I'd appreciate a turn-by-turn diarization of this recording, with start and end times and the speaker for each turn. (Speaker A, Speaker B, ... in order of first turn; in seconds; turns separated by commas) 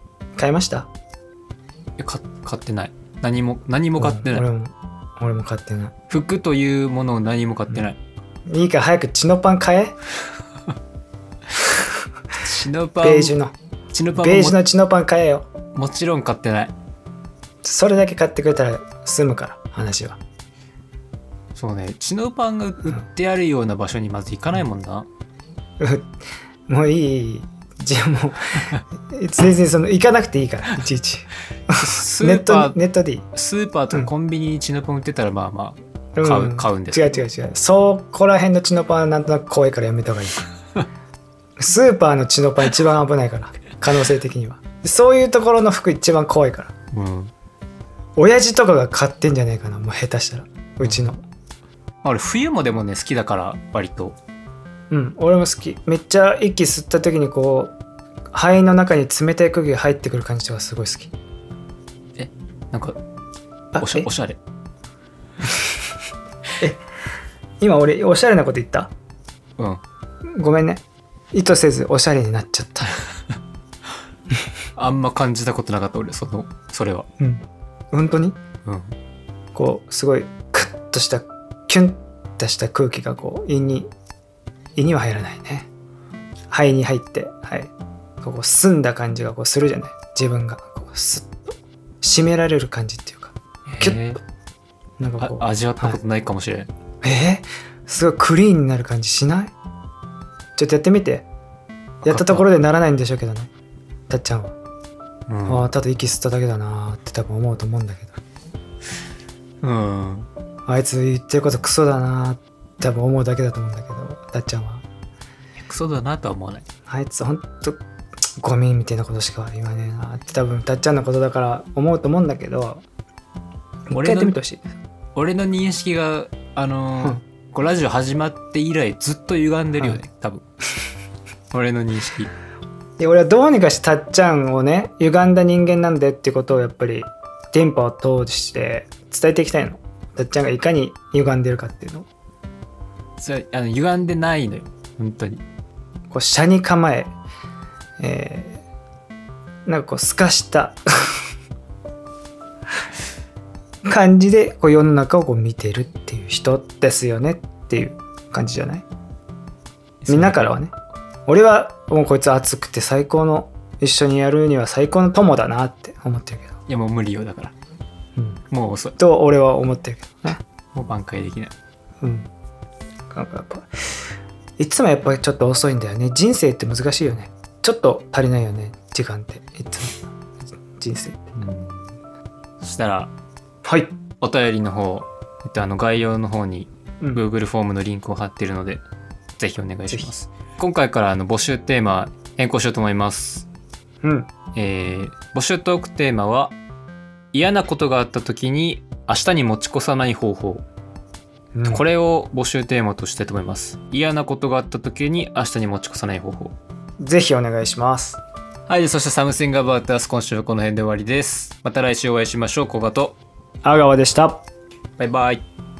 Speaker A: 0.4-0.9, Speaker B: 2.0-4.5, Speaker A: 4.0-5.9, Speaker B: 6.1-8.0, Speaker A: 8.5-9.9, Speaker B: 12.4-13.3, Speaker A: 13.0-13.5, Speaker B: 13.9-14.6, Speaker A: 14.2-15.4, Speaker B: 15.7-16.7, Speaker A: 17.6-20.2, Speaker B: 21.5-25.1, Speaker A: 25.8-26.1, Speaker A: 26.7-33.2, Speaker B: 31.8-32.8, Speaker B: 33.3-37.2, Speaker A: 36.1-40.4, Speaker A: 41.6-46.7, Speaker B: 46.9-47.3, Speaker A: 48.2-51.2, Speaker B: 50.8-51.1, Speaker B: 52.0-54.1, Speaker A: 54.9-57.7, Speaker A: 58.3-61.1, Speaker B: 62.2-63.0, Speaker A: 63.7-64.1, Speaker B: 63.8-64.4, Speaker A: 67.6-68.9, Speaker A: 70.3-73.0, Speaker B: 74.8-77.1, Speaker A: 77.2-78.4, Speaker B: 78.6-78.9, Speaker A: 79.5-83.9, Speaker A: 84.8-85.7, Speaker A: 86.5-87.7, Speaker A: 88.2-91.5, Speaker A: 92.0-94.0, Speaker B: 93.7-94.2, Speaker A: 95.0-96.0, Speaker B: 95.2-96.7, Speaker A: 97.0-99.5, Speaker A: 100.6-101.2, Speaker B: 102.0-102.5, Speaker A: 102.0-103.5, Speaker A: 104.1-104.5, Speaker B: 105.3-105.7, Speaker A: 105.5-108.2, Speaker B: 109.6-110.3, Speaker A: 110.7-114.8, Speaker B: 115.6-116.7, Speaker A: 116.9-117.8, Speaker A: 118.4-122.8, Speaker A: 123.9-124.6, Speaker B: 123.9-124.3, Speaker B: 125.1-130.4, Speaker B: 131.5-132.3, Speaker A: 133.0-142.1, Speaker B: 143.2-145.4, Speaker A: 146.1-147.1, Speaker A: 148.0-148.6, Speaker A: 149.7-151.1, Speaker A: 153.8-158.8, Speaker B: 160.0-160.5, Speaker A: 160.1-160.7, Speaker A: 161.3-166.6, Speaker B: 166.7-167.5, Speaker B: 168.5-169.0, Speaker A: 169.0-170.4, Speaker B: 170.7-171.5, Speaker A: 172.0-172.3, Speaker A: 173.1-173.7, Speaker A: 174.6-180.0, Speaker A: 180.8-181.4, Speaker B: 181.4-181.9, Speaker B: 182.6-183.1, Speaker A: 183.6-183.9, Speaker B: 184.2-188.8, Speaker B: 189.4-193.5, Speaker A: 194.0-194.3, Speaker B: 194.5-196.5, Speaker B: 197.3-200.6, Speaker A: 201.5-201.8, Speaker B: 201.7-206.5, Speaker A: 207.0-208.2, Speaker B: 208.7-213.2, Speaker A: 213.6-214.4, Speaker B: 215.0-215.4